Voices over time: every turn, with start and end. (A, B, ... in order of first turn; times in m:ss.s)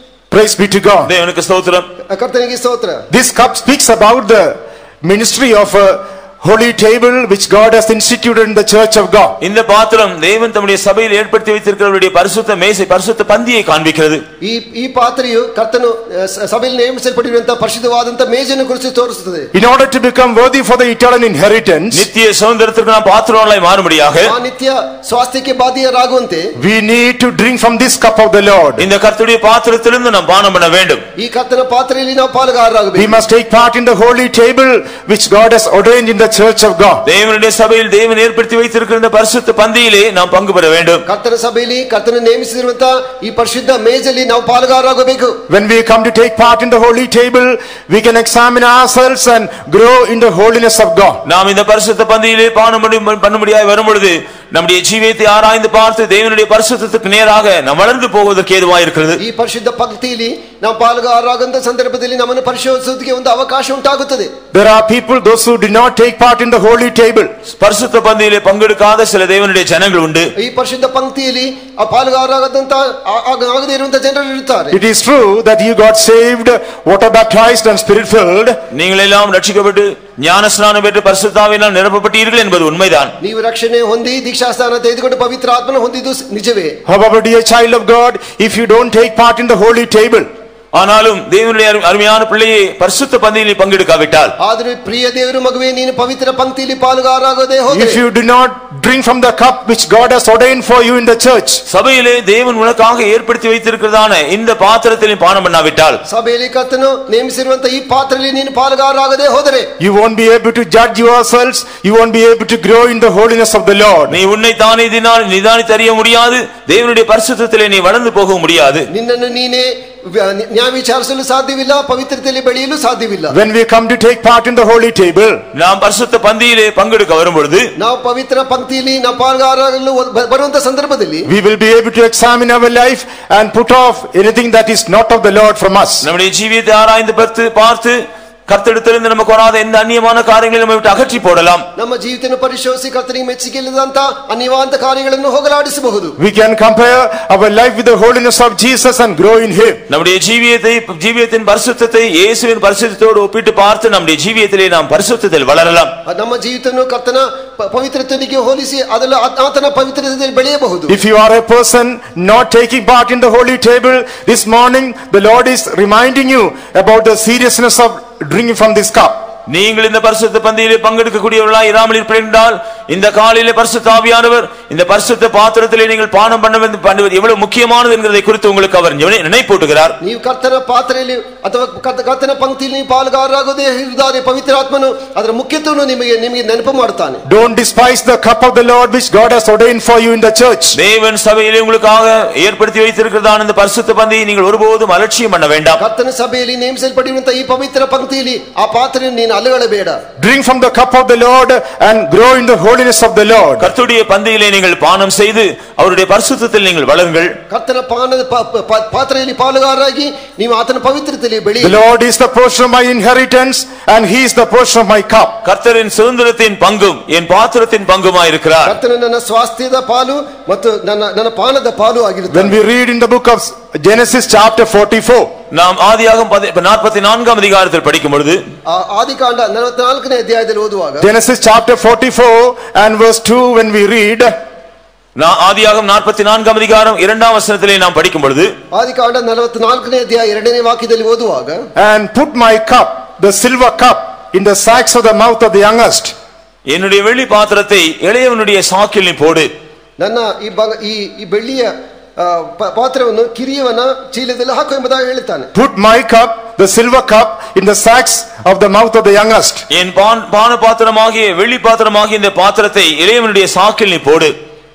0:00.3-0:01.1 A
0:01.0-0:01.9 B
0:02.1-0:03.0 C
0:03.1-0:09.4 A
0:09.4-0:14.2 B
0:14.4-0:19.5 C
0:19.5-0:22.1 A
0:21.9-0:24.3 B
0:24.2-0:26.5 C
0:26.6-0:28.9 A
0:28.8-0:31.0 B
0:31.2-0:33.2 C
0:33.0-0:37.0 A
0:37.1-0:41.0 B
0:41.1-0:45.4 C
0:45.5-0:51.2 A
0:51.3-0:59.2 B
0:59.2-1:04.3 C
1:04.5-1:07.3 A
1:07.5-1:10.3 B
1:10.4-1:14.8 C
1:14.7-1:18.6 A
1:18.7-1:23.1 B
1:23.2-1:26.8 C
1:26.8-1:30.3 A
1:30.7-1:34.3 B
1:34.4-1:38.0 C
1:37.7-1:41.6 A
1:41.7-1:46.0 B
1:46.1-1:49.7 C
1:49.8-1:54.2 A
1:54.1-1:58.9 B
1:58.9-2:03.3 C
2:03.3-2:05.4 A
2:05.5-2:07.7 B
2:07.8-2:11.3 C
2:11.3-2:16.1 A
2:16.0-2:21.6 B
2:21.8-2:26.2 C
2:26.2-2:29.8 A
2:29.9-2:35.9 B
2:36.1-2:41.0 C
2:40.9-2:49.2 A
2:49.5-2:59.9 B
3:00.0-3:07.2 C
3:07.2-3:10.8 A
3:10.7-3:15.8 B
3:15.8-3:20.0 C
3:20.2-3:23.7 A
3:23.6-3:27.4 B
3:27.5-3:31.8 C
3:31.6-3:35.4 A
3:35.4-3:38.8 B
3:38.6-3:42.6 C
3:42.3-3:45.3 A
3:45.5-3:48.4 B
3:48.7-3:51.1 C
3:51.0-3:54.3 A
3:55.2-3:58.5 B
3:58.7-4:01.6 C
4:01.8-4:06.1 A
4:06.7-4:09.5 B
4:10.0-4:15.5 C
4:15.5-4:19.6 A
4:19.7-4:24.3 B